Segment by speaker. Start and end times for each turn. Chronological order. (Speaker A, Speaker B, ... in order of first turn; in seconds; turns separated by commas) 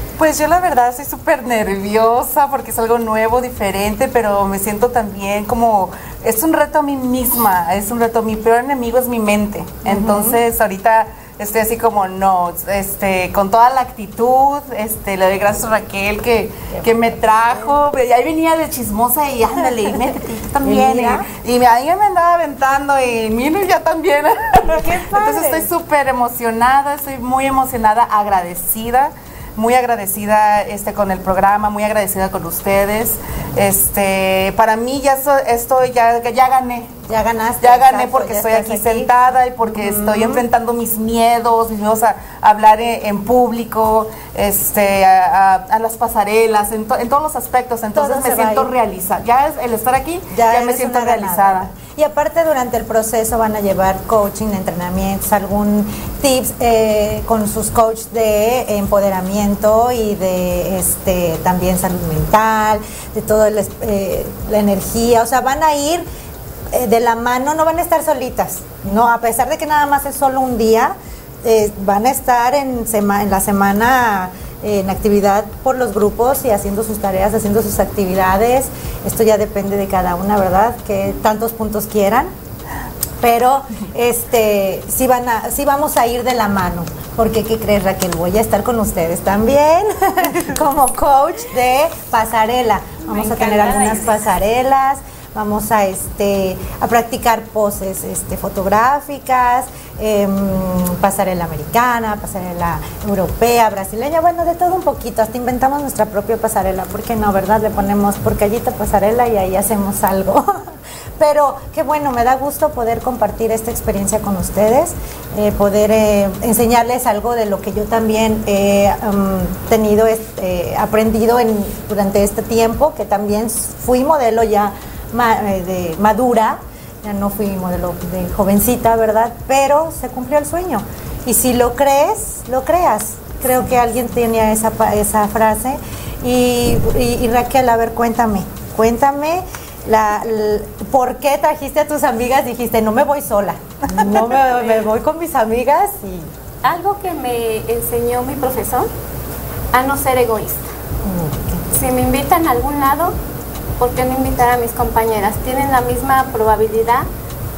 Speaker A: 0.2-37.0, Speaker B: 9.8-10.4, Speaker B: 16.8-17.7, Speaker B: 20.6-21.3, Speaker B: 24.8-25.7, Speaker B: 37.1-39.1, Speaker A: 37.6-51.7, Speaker B: 39.7-40.5, Speaker B: 47.9-48.7, Speaker B: 50.3-66.1, Speaker B: 66.7-82.3, Speaker B: 83.2-146.3, Speaker C: 93.3-94.0, Speaker C: 146.6-148.9, Speaker C: 149.7-150.7, Speaker B: 151.1-151.7, Speaker C: 151.7-153.2, Speaker C: 153.8-157.1